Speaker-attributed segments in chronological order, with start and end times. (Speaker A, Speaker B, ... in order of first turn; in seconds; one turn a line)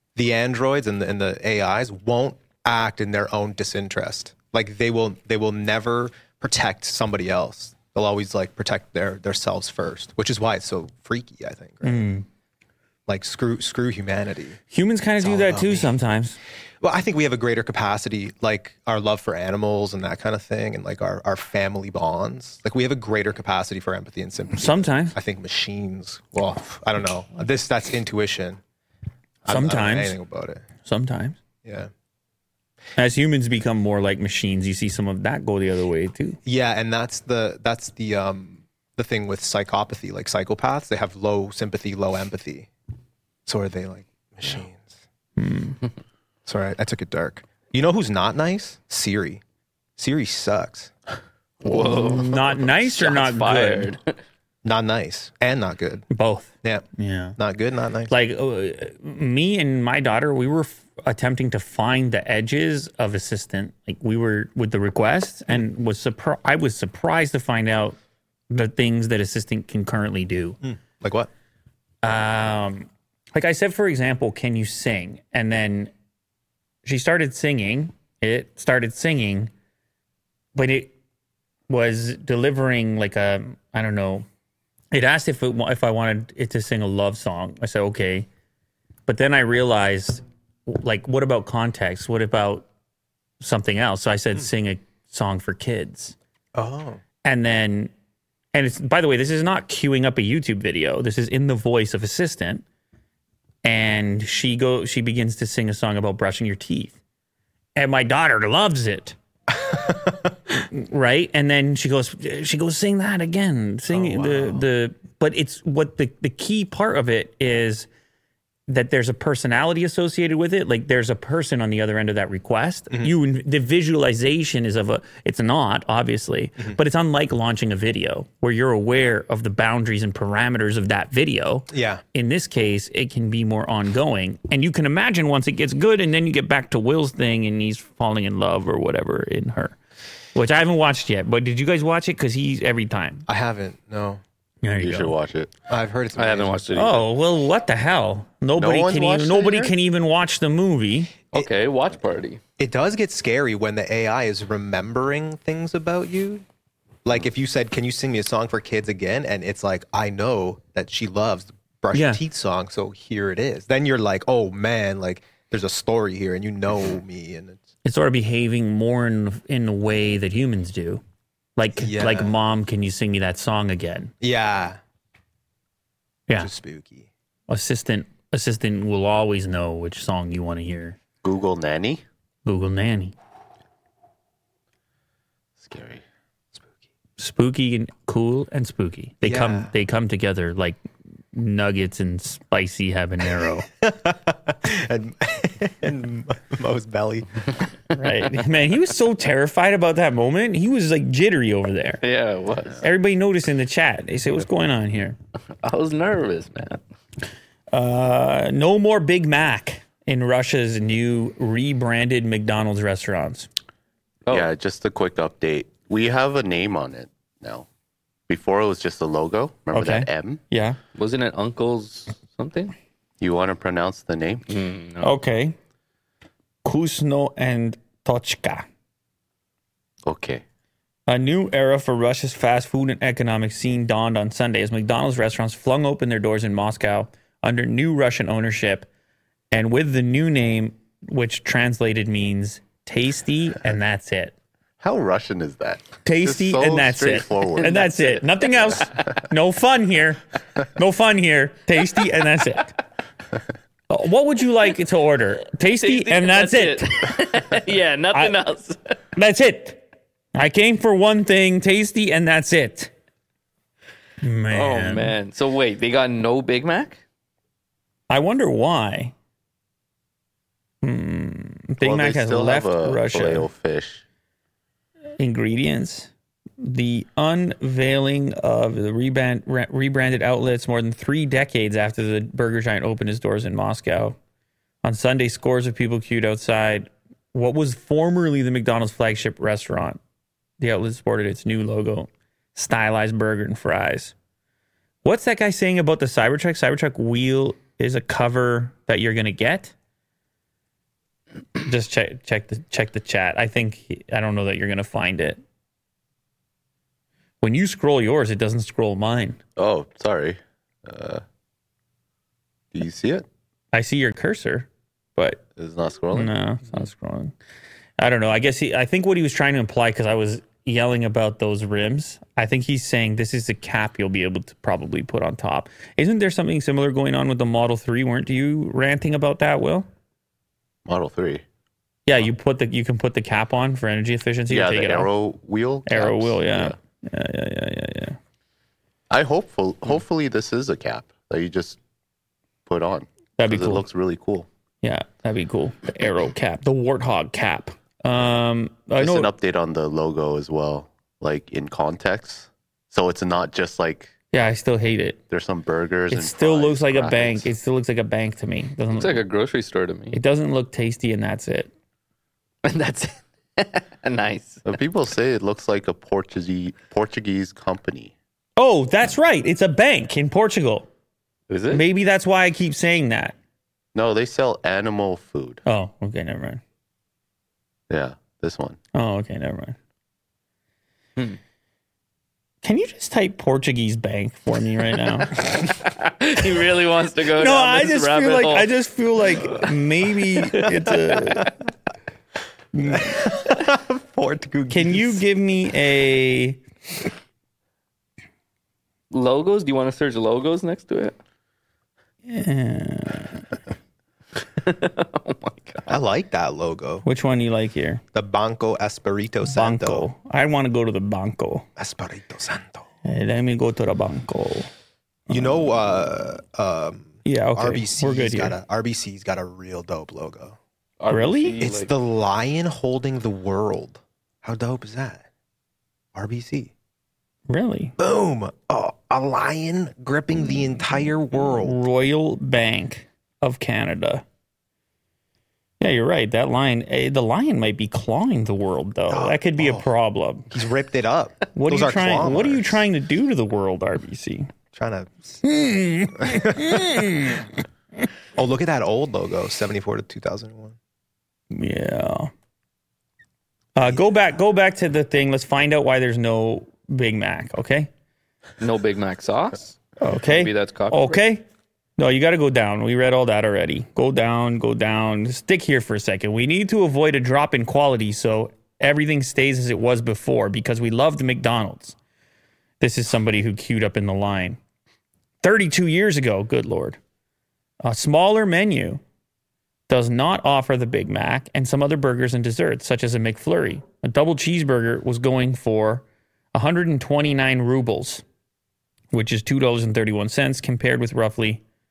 Speaker A: 0.2-12.1
Speaker B: 11.8-12.3
Speaker A: 13.1-14.6
Speaker B: 14.7-16.4
Speaker A: 15.2-15.9
Speaker A: 16.8-28.6
Speaker B: 24.5-25.2
Speaker A: 29.4-30.6
Speaker B: 29.5-30.2
Speaker B: 30.9-31.4
Speaker A: 31.6-31.9
Speaker B: 33.0-36.4
Speaker A: 36.5-42.7
Speaker A: 43.5-44.9
Speaker B: 45.4-45.8
Speaker A: 46.5-49.4
Speaker A: 50.0-50.9
Speaker C: 51.6-54.2
Speaker B: 51.6-53.9
Speaker A: 54.6-56.1
Speaker B: 56.1-57.4
Speaker A: 57.4-58.1
Speaker B: 58.1-68.0
Speaker B: 68.5-70.6
Speaker A: 70.6-71.3
Speaker B: 72.0-75.9
Speaker B: 76.8-79.5
Speaker B: 80.5-80.9
Speaker B: 81.7-84.3
Speaker B: 84.9-88.3
Speaker B: 89.1-92.7
Speaker B: 93.4-96.2
Speaker A: 96.5-97.0
Speaker B: 97.2-97.9
Speaker B: 98.5-102.6
Speaker B: 103.6-107.0
Speaker B: 107.8-109.2
Speaker B: 110.5-117.9
Speaker A: 113.9-114.6
Speaker B: 118.7-139.8
Speaker A: 131.7-132.0
Speaker B: 140.3-143.3
Speaker A: 143.3-144.2
Speaker B: 144.6-145.2
Speaker D: 144.8-145.5
Speaker A: 145.7-146.7
Speaker C: 146.2-147.1
Speaker B: 146.8-151.1
Speaker D: 148.6-149.8
Speaker C: 151.3-152.4
Speaker A: 152.6-156.4
Speaker A: 157.1-167.6
Speaker B: 161.9-162.2
Speaker B: 167.8-171.0
Speaker B: 171.6-174.1
Speaker A: 171.8-172.3
Speaker A: 174.2-174.8
Speaker A: 176.4-177.1
Speaker B: 177.5-181.0
Speaker D: 181.2-182.0
Speaker B: 182.5-183.1
Speaker D: 185.6-186.0
Speaker B: 187.2-190.8
Speaker A: 189.2-189.7
Speaker B: 191.3-193.7
Speaker A: 193.8-197.4
Speaker B: 197.9-202.0
Speaker C: 202.0-202.8
Speaker B: 202.8-205.2
Speaker C: 205.6-206.8
Speaker B: 207.7-213.5
Speaker D: 214.3-217.7
Speaker D: 218.3-220.4
Speaker B: 219.7-220.8
Speaker C: 221.0-222.7
Speaker D: 223.2-224.5
Speaker C: 224.5-225.2
Speaker B: 225.0-225.6
Speaker B: 226.6-228.7
Speaker D: 230.1-230.4
Speaker B: 231.1-238.9
Speaker B: 239.5-244.3
Speaker D: 244.8-247.9
Speaker B: 246.1-250.2
Speaker C: 247.6-248.9
Speaker B: 250.8-252.8
Speaker B: 253.9-256.9
Speaker C: 255.8-259.0
Speaker B: 259.2-259.8
Speaker B: 260.3-262.9
Speaker B: 264.2-265.1
Speaker C: 264.5-267.0
Speaker B: 268.1-269.1
Speaker B: 270.8-273.5
Speaker D: 271.8-274.0
Speaker B: 275.2-284.2
Speaker B: 284.8-290.0
Speaker B: 290.6-294.1
Speaker B: 295.0-299.7
Speaker B: 301.6-305.4
Speaker B: 307.4-309.4
Speaker D: 309.6-311.2
Speaker D: 312.7-313.3
Speaker B: 313.7-315.4
Speaker D: 315.6-316.3
Speaker B: 316.1-317.3
Speaker B: 318.0-329.9
Speaker D: 330.9-331.4
Speaker B: 332.1-335.1
Speaker D: 334.5-336.8
Speaker B: 335.9-338.2
Speaker D: 339.1-341.8
Speaker D: 342.7-344.5
Speaker B: 343.4-343.9
Speaker B: 344.8-349.3
Speaker D: 349.0-354.1
Speaker B: 354.3-355.2
Speaker D: 355.3-357.5
Speaker B: 356.1-359.2
Speaker C: 358.9-360.2
Speaker B: 360.1-361.7
Speaker C: 362.6-364.7
Speaker D: 364.6-368.1
Speaker B: 368.6-370.9
Speaker C: 371.5-371.9
Speaker B: 371.7-373.4
Speaker D: 373.9-375.6
Speaker B: 375.7-376.6
Speaker D: 377.9-378.8
Speaker B: 378.9-379.8
Speaker B: 382.6-385.7
Speaker C: 385.7-388.7
Speaker B: 387.4-391.5
Speaker B: 392.7-393.2
Speaker A: 392.9-395.2
Speaker B: 394.7-396.6
Speaker C: 399.1-401.2
Speaker B: 402.3-403.4
Speaker C: 404.6-406.0
Speaker A: 405.9-407.1
Speaker B: 407.0-408.0
Speaker A: 408.1-410.1
Speaker B: 409.5-411.7
Speaker A: 411.8-412.9
Speaker B: 413.1-414.7
Speaker B: 415.3-415.6
Speaker A: 415.3-420.6
Speaker B: 417.2-418.6
Speaker C: 421.0-421.9
Speaker B: 421.1-421.6
Speaker A: 421.6-425.2
Speaker A: 426.1-426.7
Speaker B: 427.5-427.9
Speaker A: 428.0-431.8
Speaker B: 431.3-434.2
Speaker B: 435.8-440.5
Speaker A: 439.1-439.9
Speaker A: 440.5-442.8
Speaker B: 441.5-444.5
Speaker A: 444.7-445.4
Speaker B: 445.4-447.5
Speaker A: 446.2-447.2
Speaker A: 448.4-450.8
Speaker B: 451.5-452.3
Speaker B: 453.8-457.9
Speaker C: 458.6-461.2
Speaker B: 460.0-461.4
Speaker B: 462.0-472.0
Speaker B: 472.8-474.6
Speaker B: 475.4-477.0
Speaker B: 477.8-479.0
Speaker B: 479.9-488.2
Speaker B: 489.1-491.6